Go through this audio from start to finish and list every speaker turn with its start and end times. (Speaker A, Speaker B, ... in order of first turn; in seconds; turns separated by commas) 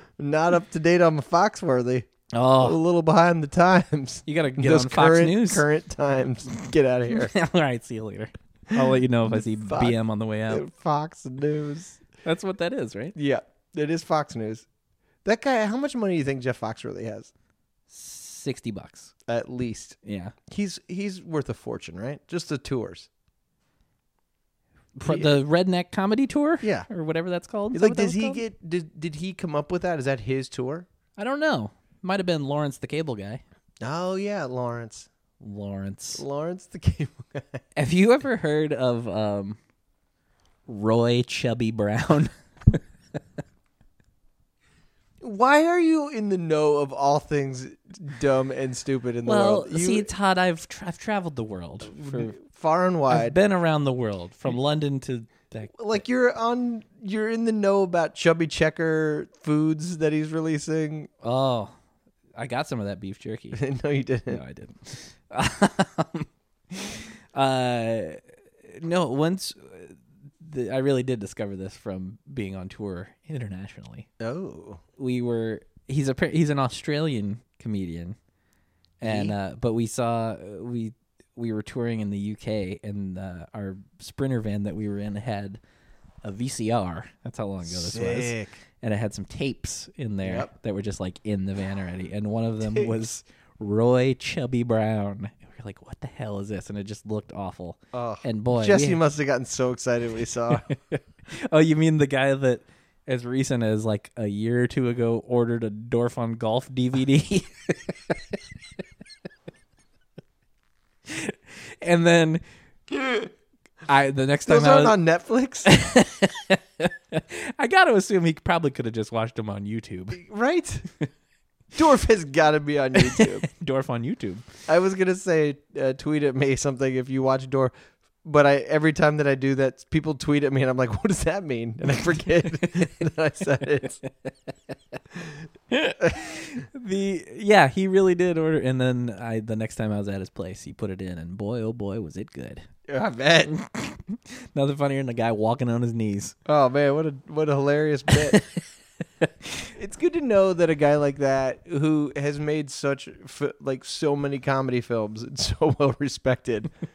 Speaker A: 0.2-2.1, Speaker B: 2.3-2.8, Speaker A: 2.6-7.3, Speaker B: 4.3-5.6, Speaker B: 7.1-10.7, Speaker A: 9.2-10.0, Speaker A: 10.5-12.0, Speaker B: 12.2-13.2, Speaker A: 13.2-14.7, Speaker A: 15.2-17.3, Speaker B: 17.9-19.1, Speaker A: 19.3-20.0, Speaker B: 20.0-20.4, Speaker A: 20.5-23.1, Speaker B: 25.0-28.4, Speaker A: 25.1-25.3, Speaker A: 27.7-30.9, Speaker B: 31.2-33.4, Speaker A: 33.8-35.1, Speaker B: 35.4-36.2, Speaker A: 36.1-37.6, Speaker B: 37.8-39.6, Speaker B: 40.7-42.8, Speaker A: 45.2-50.1, Speaker B: 49.2-52.4, Speaker A: 52.0-53.4, Speaker B: 53.1-56.0, Speaker A: 55.8-61.1, Speaker B: 61.2-61.7, Speaker B: 62.4-63.6, Speaker A: 63.5-64.4, Speaker B: 64.3-74.1, Speaker A: 74.2-74.8, Speaker B: 75.0-78.2, Speaker B: 79.0-85.6, Speaker A: 79.0-79.3, Speaker B: 86.2-99.0, Speaker A: 87.7-88.5, Speaker A: 90.2-90.5, Speaker A: 92.6-92.9, Speaker A: 97.9-100.6, Speaker B: 100.5-108.4, Speaker B: 111.1-112.4, Speaker B: 113.9-115.0, Speaker A: 114.5-115.7, Speaker B: 115.7-120.2, Speaker A: 120.1-120.9, Speaker A: 121.8-123.5, Speaker B: 123.0-124.5, Speaker A: 124.7-134.0, Speaker B: 135.7-142.7, Speaker A: 142.9-143.5, Speaker B: 143.5-146.3, Speaker A: 146.5-148.4, Speaker B: 148.3-148.6, Speaker B: 149.2-149.7, Speaker A: 149.8-156.7